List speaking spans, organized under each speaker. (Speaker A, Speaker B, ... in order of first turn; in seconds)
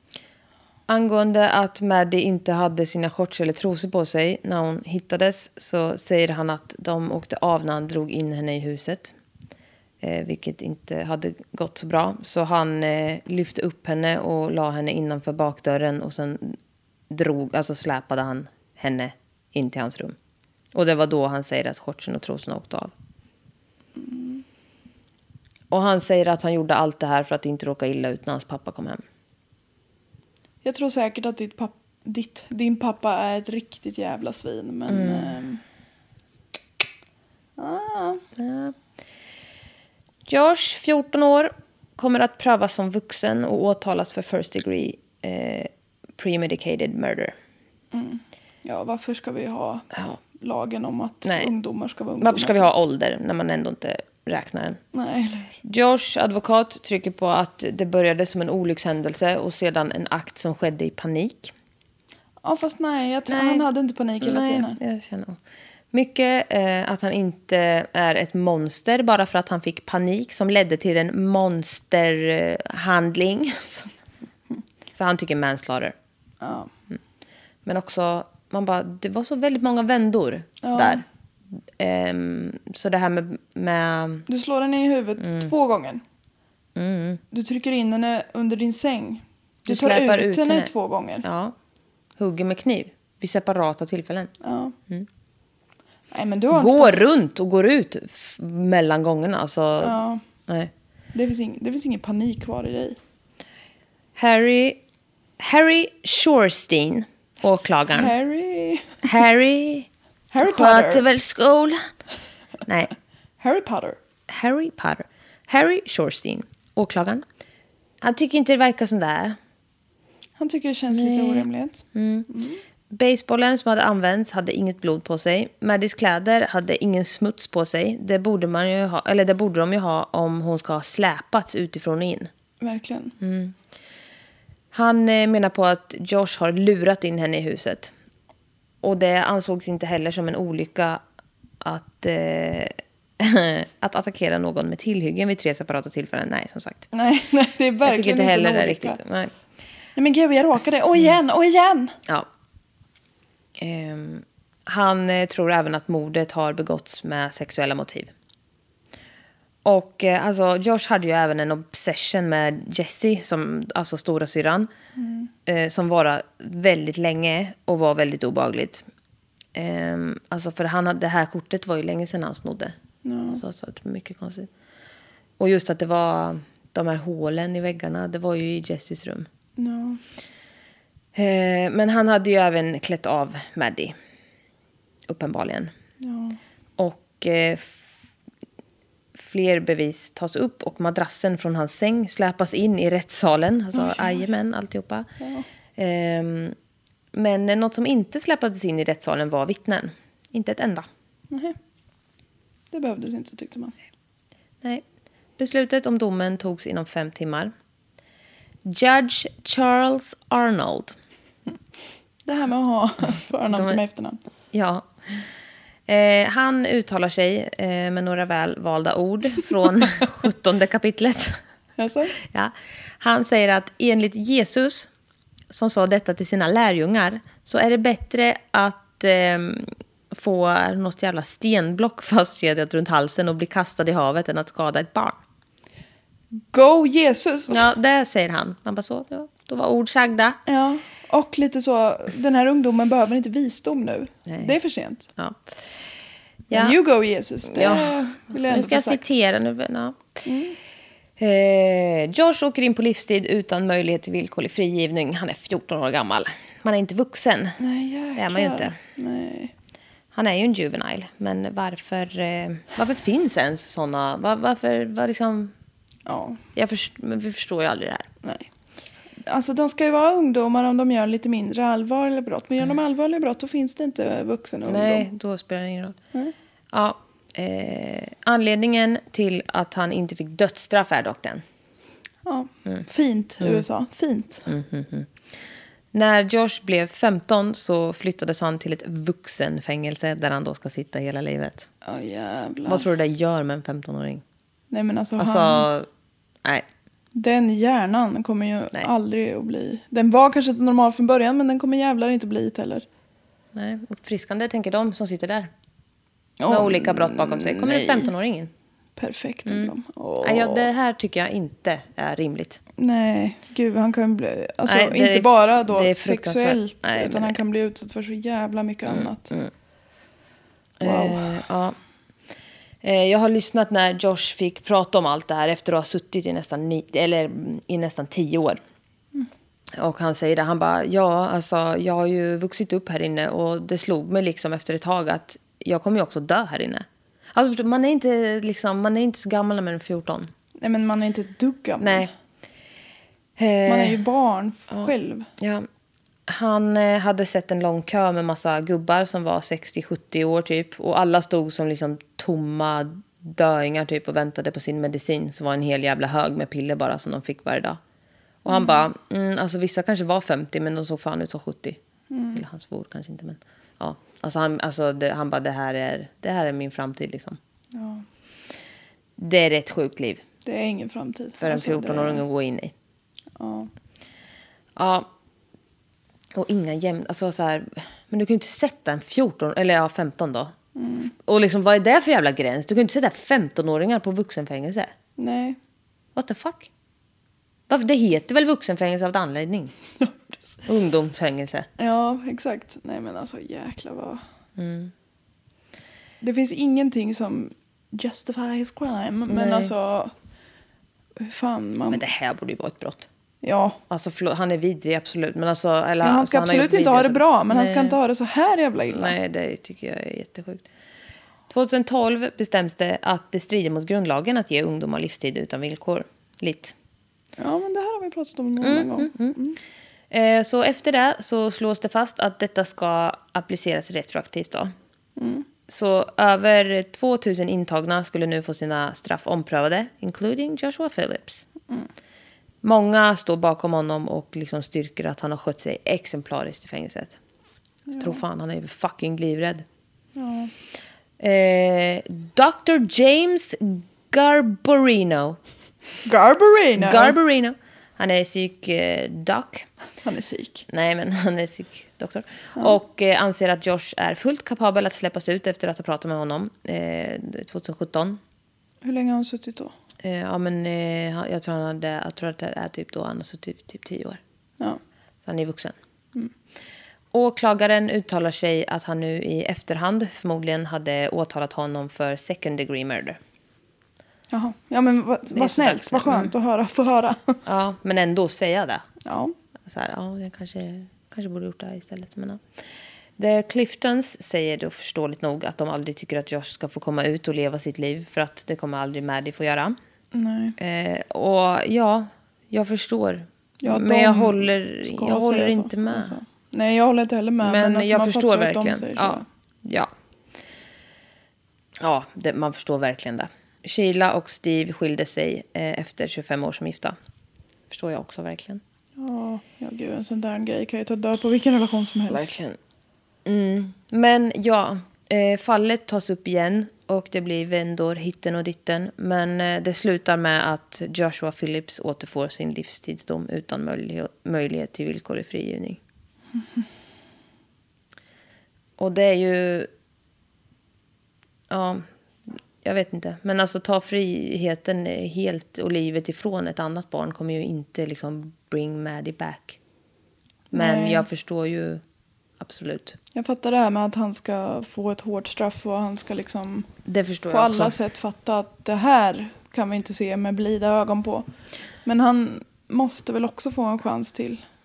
Speaker A: 0.9-9.2, 10.0-16.6, 17.1-20.2, 20.8-22.9, 25.7-29.0, 34.9-35.4, 38.4-38.8, 40.3-47.3, 49.9-50.2, 51.2-51.5, 52.2-54.8, 55.6-61.5, 63.3-63.7, 64.2-65.4, 65.9-73.9, 74.9-75.9, 77.7-81.0, 81.8-84.3, 85.2-85.5, 86.8-87.2, 89.7-90.7, 91.2-91.5, 92.2-94.3, 96.5-100.7, 104.2-104.8, 105.4-108.1, 109.0-109.9, 110.4-111.9, 112.7-112.9, 114.3-117.2, 118.0-119.4, 120.9-122.3, 122.9-132.3, 133.2-133.6, 134.7-137.9, 138.8-141.0, 141.6-146.9, 147.8-149.3, 153.6-158.1, 159.7-164.7, 165.5-168.8, 169.5-172.8, 173.3-174.5, 175.4-179.3, 181.2-183.9, 185.1-185.7, 186.8-187.8, 189.2-195.1, 195.8-196.6, 197.1-200.9, 205.4-207.5, 208.7-211.0, 213.5-213.8, 214.5-215.3, 215.9-221.4, 222.3-224.9, 225.5-235.2, 237.5-240.4, 244.3-244.5, 245.2-245.8, 246.5-246.8, 247.5-250.2, 251.2-257.6, 258.1-258.8, 260.1-265.5, 266.6-268.1, 274.7-276.0, 276.7-281.4, 284.5-285.1, 285.9-291.7, 292.7-294.2, 295.2-295.9, 303.6-305.5, 306.5-308.5, 309.5-312.6, 314.7-317.4, 318.9-319.5, 320.8-321.8, 322.8-328.6, 329.8-340.3, 341.8-342.1, 343.4-344.0, 344.7-345.7, 346.3-357.8, 358.4-361.8, 362.3-367.4, 369.2-370.2, 371.4-372.7, 374.8-375.1, 376.3-380.5, 381.2-384.9, 386.2-386.7, 387.7-389.7, 390.6-391.7, 394.6-394.9, 399.3-399.7, 401.9-403.1, 403.9-408.0, 408.9-410.7, 411.5-416.8, 418.6-419.4, 420.1-424.7, 425.7-431.5, 432.6-437.2, 438.0-439.6, 441.2-445.4, 446.8-449.7, 450.7-458.2, 460.0-464.2, 465.2-465.8, 467.1-473.2, 475.3-476.3, 477.5-478.9, 479.6-482.4, 483.2-489.8, 490.6-496.2, 497.4-499.9, 501.8-507.0, 507.7-508.6, 512.1-512.6, 513.2-525.8, 528.8-529.7, 531.5-539.6, 540.5-541.8, 542.4-543.0, 546.9-547.8
Speaker B: 23.9-24.4, 30.6-35.6, 37.6-38.2, 47.9-52.7, 54.9-55.6, 62.4-64.8, 76.4-76.7, 80.6-81.0, 84.3-86.0, 87.3-91.2, 94.4-94.8, 96.1-97.0, 99.8-100.2, 101.1-103.0, 107.9-109.0, 110.3-111.0, 113.4-114.0, 120.4-122.6, 132.6-133.2, 146.9-149.0, 150.0-152.0, 165.0-165.3, 173.0-173.4, 179.6-180.0, 186.0-186.4, 193.7-194.3, 195.2-195.5, 201.3-201.6, 202.7-203.8, 212.2-214.2, 221.8-222.2, 236.3-237.7, 240.5-245.1, 246.5-249.0, 250.3-250.6, 257.6-259.5, 266.1-266.4, 268.2-268.5, 269.2-275.1, 282.2-284.5, 291.8-292.9, 294.7-295.7, 297.1-302.9, 306.4-308.1, 309.0-310.7, 312.8-319.3, 320.8-321.4, 340.6-342.1, 343.7-345.3, 358.5-358.8, 362.1-362.4, 367.7-368.1, 370.4-372.2, 373.4-373.7, 380.8-381.1, 385.2-385.6, 390.0-390.6, 391.8-394.2, 396.2-400.1, 401.2-402.0, 403.4-403.8, 406.0-409.1, 417.4-419.6, 425.2-425.5, 437.9-438.2, 440.1-440.5, 446.1-447.2, 450.0-450.7, 458.8-459.7, 474.3-477.4, 479.1-479.4, 490.1-490.6, 493.6-499.3, 509.0-512.4, 540.5-541.1, 543.1-546.7, 547.3-551.3, 551.9-554.4